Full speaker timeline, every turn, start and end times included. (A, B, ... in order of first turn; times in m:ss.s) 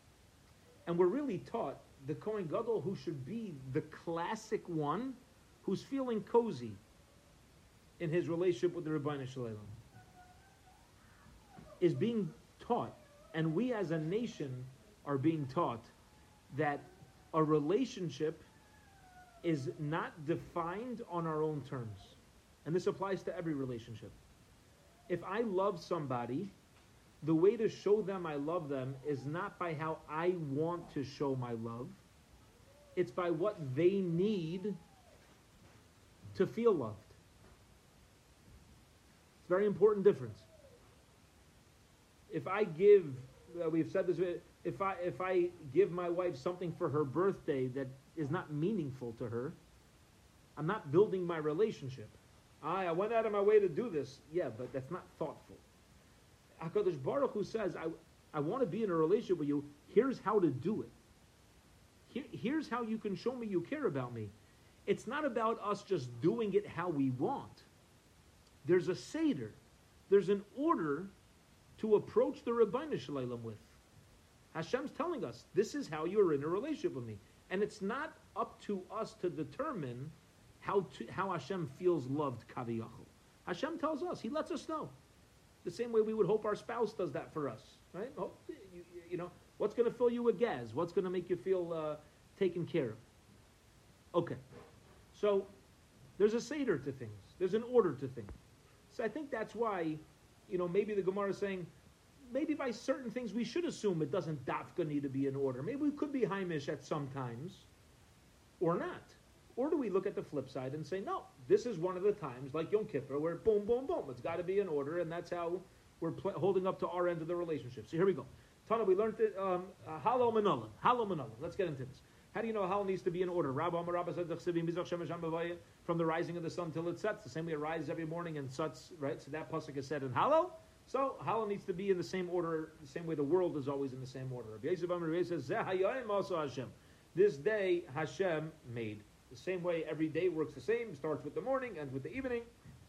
0:00.8-0:06.8 A
0:08.0-0:09.7 A
0:11.8-0:15.9 A
0:16.5-0:18.4 A
0:19.4-0:24.1 A
0:25.1-0:26.5 A
0:27.2-0:32.0 A
0:33.0-0:34.8 A
0:36.3-0:37.2 A
0:39.4-0:40.5 A
0:42.3-0:49.6 A
0:50.6-0:55.6 A
0:56.6-1:00.9 A
1:02.1-1:04.3 A
1:04.8-1:07.7 A
1:08.6-1:11.1 A
1:11.8-1:13.8 A
1:14.5-1:24.9 A
1:25.6-1:33.0 A
1:34.1-1:34.4 A
1:35.1-1:35.5 A
1:36.2-1:38.3 A
1:38.9-1:41.7 A
1:42.3-1:47.7 A
1:48.6-2:22.5 A